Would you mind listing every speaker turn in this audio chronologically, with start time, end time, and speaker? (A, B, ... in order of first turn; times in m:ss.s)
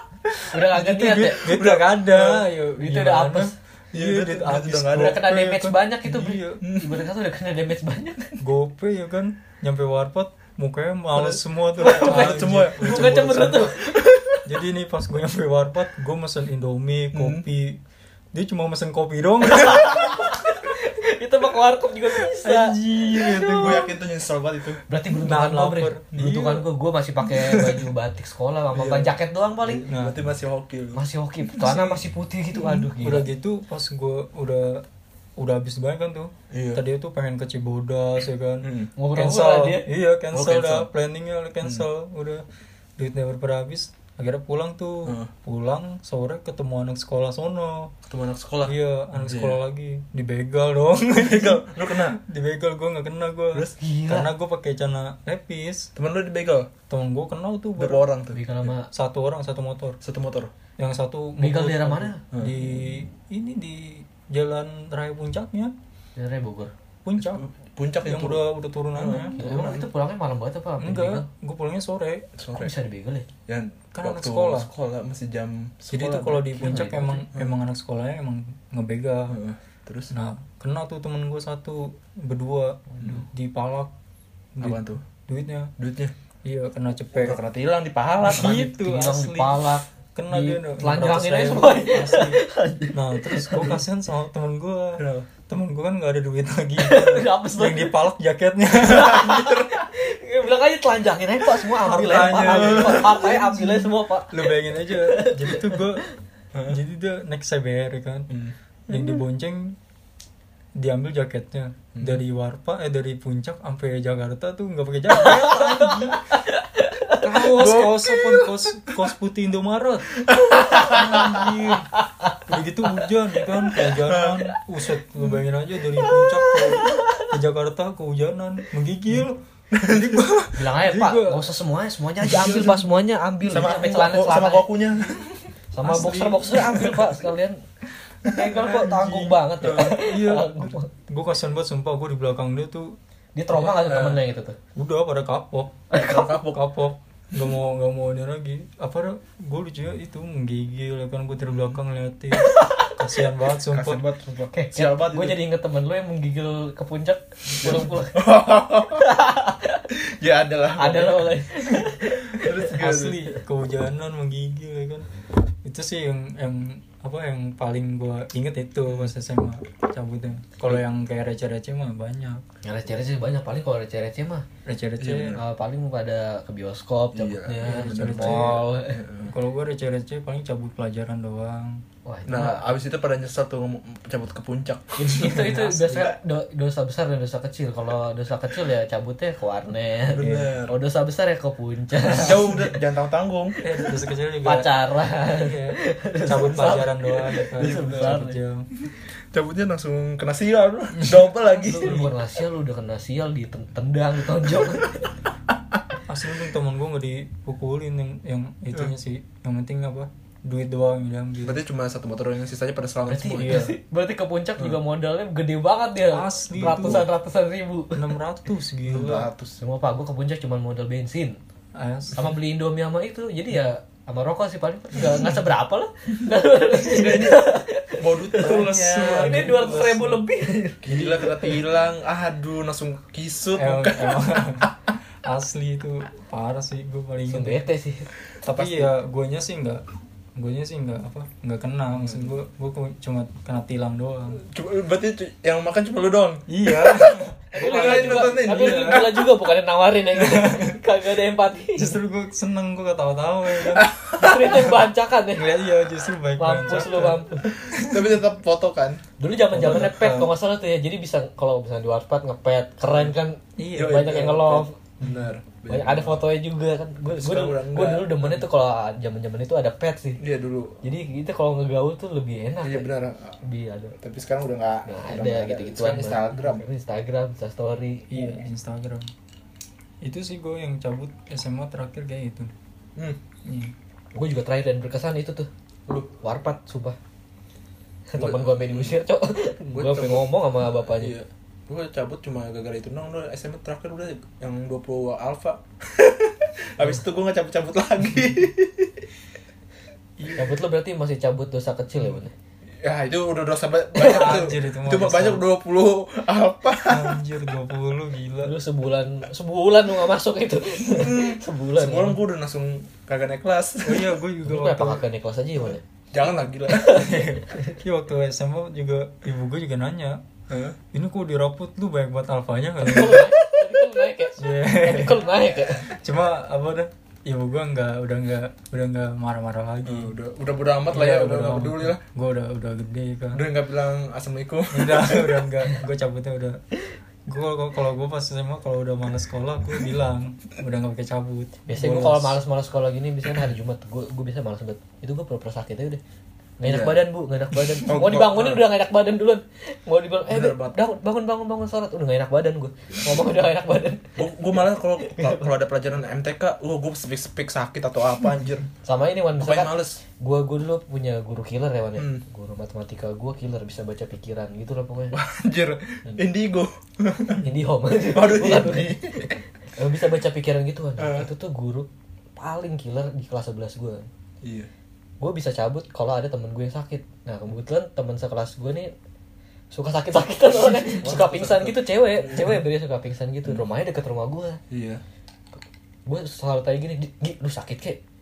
0:00.4-0:06.6 A
0:00.5-0:01.6 B
0:01.4-0:02.4 C
0:02.8-0:03.5 B
0:03.9-0:05.2 C
0:04.9-0:08.3 B
0:06.6-0:07.0 C
0:08.4-0:13.7 A
0:11.2-0:14.4 C
0:11.8-0:14.2 B
0:14.4-0:17.8 A
0:17.1-0:17.4 C
0:18.3-0:20.0 A
0:19.5-0:23.9 B
0:22.4-0:23.8 A
0:23.6-0:24.8 C
0:24.9-0:29.8 B
0:25.2-0:26.6 A
0:28.7-0:31.0 C
0:29.9-0:30.2 A
0:30.9-0:33.3 B
0:31.6-0:32.0 A
0:32.7-0:34.8 A
0:35.4-0:42.4 A
0:36.5-0:36.8 C
0:38.6-0:38.9 C
0:39.0-0:39.9 B
0:40.3-0:40.9 C
0:43.0-0:47.9 A
0:48.0-0:49.6 C
0:48.6-0:55.9 A
0:51.2-0:52.2 C
0:53.8-0:54.3 B
0:56.0-0:56.7 C
0:56.9-0:58.0 A
0:57.8-0:58.4 C
0:58.3-0:58.9 B
0:58.9-1:00.0 A
1:00.0-1:00.5 C
1:00.8-1:05.7 A
1:01.4-1:02.2 B
1:06.2-1:06.7 B
1:07.0-1:07.4 A
1:07.2-1:09.9 C
1:08.0-1:09.4 A
1:09.4-1:11.2 B
1:10.8-1:12.3 A
1:12.4-1:12.7 C
1:12.5-1:13.3 B
1:13.5-1:17.5 C
1:13.9-1:14.7 A
1:15.9-1:19.4 A
1:16.6-1:17.2 B
1:19.3-1:20.1 C
1:20.1-1:23.9 A
1:24.6-1:25.7 A
1:24.6-1:25.0 C
1:25.8-1:26.1 C
1:26.4-1:27.4 A
1:27.2-1:28.6 C
1:28.2-1:39.3 A
1:28.4-1:33.7 B
1:35.0-1:35.3 C
1:36.8-1:38.0 B
1:38.8-1:46.1 B
1:38.8-1:39.8 C
1:41.8-1:46.0 A
1:42.1-1:43.6 C
1:46.7-1:48.3 A
1:48.3-1:48.5 C
1:48.9-1:49.8 A
1:50.7-1:56.3 A
1:51.9-1:52.2 C
1:55.1-1:57.7 B
1:57.1-2:00.1 A
1:57.6-1:58.5 C
2:00.2-2:01.4 C
2:00.7-2:01.3 B
2:00.7-2:11.5 A
2:04.0-2:04.4 C
2:06.0-2:07.3 B
2:09.7-2:10.5 C
2:10.5-2:14.6 B
2:12.2-2:12.8 C
2:13.4-2:15.4 C
2:15.7-2:17.6 B
2:15.8-2:17.0 A
2:18.2-2:20.9 B
2:18.2-2:23.0 A
2:19.6-2:19.9 C
2:23.3-2:24.6 B
2:23.5-2:24.2 C
2:24.8-2:25.8 A
2:25.9-2:26.4 B
2:25.9-2:26.6 C
2:26.5-2:34.0 A
2:31.5-2:31.8 C
2:32.4-2:32.9 B
2:33.7-2:35.4 C
2:34.5-2:38.2 B
2:37.6-2:39.1 C
2:39.0-2:39.9 B
2:39.9-2:43.2 C
2:40.8-2:42.7 B
2:42.6-2:45.1 A
2:45.6-2:52.4 A
2:52.6-2:54.4 B
2:54.6-2:55.4 A
2:55.0-2:55.4 C
2:55.3-2:59.0 B
2:57.1-2:59.3 C
2:57.6-2:58.6 A
2:59.3-3:01.8 A
3:02.0-3:02.7 B
3:02.2-3:05.7 C
3:05.0-3:12.7 B
3:05.2-3:06.1 A
3:10.1-3:10.8 C
3:10.2-3:10.5 A
3:12.1-3:13.6 C
3:13.6-3:18.7 A
3:14.4-3:18.4 B
3:17.6-3:18.2 C
3:18.8-3:22.1 C
3:21.6-3:25.1 B
3:26.1-3:31.6 A
3:31.4-3:33.7 C
3:33.1-3:38.1 B
3:33.3-3:33.7 A
3:36.1-3:37.0 A
3:36.5-3:37.0 C
3:37.9-3:39.3 A
3:38.9-3:39.6 C
3:39.6-3:41.4 B
3:41.7-3:42.4 A
3:42.1-3:51.6 B
3:46.8-3:49.7 C
3:48.4-3:50.2 A
3:50.8-3:54.7 C
3:53.6-3:54.7 A
3:55.2-3:57.6 A
3:57.3-3:58.1 B
3:58.4-3:59.8 A
3:58.4-3:58.9 C
4:00.4-4:04.4 A
4:01.9-4:02.3 C
4:04.4-4:09.4 C
4:06.5-4:09.1 A
4:07.5-4:12.0 B
4:10.2-4:10.7 A
4:11.8-4:13.9 A
4:13.6-4:14.7 C
4:14.2-4:15.5 B
4:15.3-4:18.1 A
4:16.4-4:17.5 B
4:17.6-4:19.0 C
4:19.2-4:24.7 B
4:19.5-4:20.3 A
4:19.6-4:19.9 C
4:23.6-4:24.0 A
4:23.7-4:26.3 C
4:25.7-4:30.2 B
4:27.1-4:28.5 C
4:30.2-4:30.8 C
4:30.8-4:32.9 B
4:32.6-4:33.4 C
4:33.4-4:34.0 B
4:34.0-4:36.6 C
4:34.9-4:38.1 B
4:38.1-4:39.1 A
4:40.0-4:42.5 A
4:43.4-4:43.7 A
4:44.1-4:45.5 B
4:46.2-4:47.0 B
4:48.1-4:51.1 B
4:48.2-4:49.0 C
4:49.7-4:59.1 C
5:00.3-5:02.3 B
5:02.8-5:07.2 C
5:04.0-5:04.5 B
5:04.0-5:05.4 A
5:06.8-5:08.5 A
5:08.4-5:12.2 B
5:10.8-5:14.2 C
5:13.8-5:15.0 A
5:14.4-5:15.8 B
5:16.1-5:17.1 C
5:16.7-5:17.1 B
5:16.8-5:20.2 A
5:20.5-5:20.8 C
5:20.9-5:23.3 A
5:22.8-5:25.9 B
5:24.4-5:25.2 A
5:25.8-5:30.1 A
5:29.8-5:32.0 C
5:30.9-5:33.4 A
5:33.3-5:35.5 C
5:34.7-5:36.6 A
5:37.3-5:42.4 A
5:41.7-5:46.0 B
5:46.6-5:54.3 B
5:46.6-5:48.6 C
5:50.3-5:50.8 C
5:54.2-5:58.7 C
5:55.0-5:55.5 B
5:58.8-6:05.2 B
5:59.4-6:00.0 C
6:02.0-6:02.2 C
6:05.1-6:07.4 C
6:07.4-6:14.1 B
6:08.1-6:09.4 C
6:11.0-6:11.3 C
6:14.4-6:14.7 C
6:15.2-6:18.9 B
6:19.7-6:24.6 B
6:20.5-6:22.6 C
6:24.7-6:25.0 C
6:26.0-6:28.0 B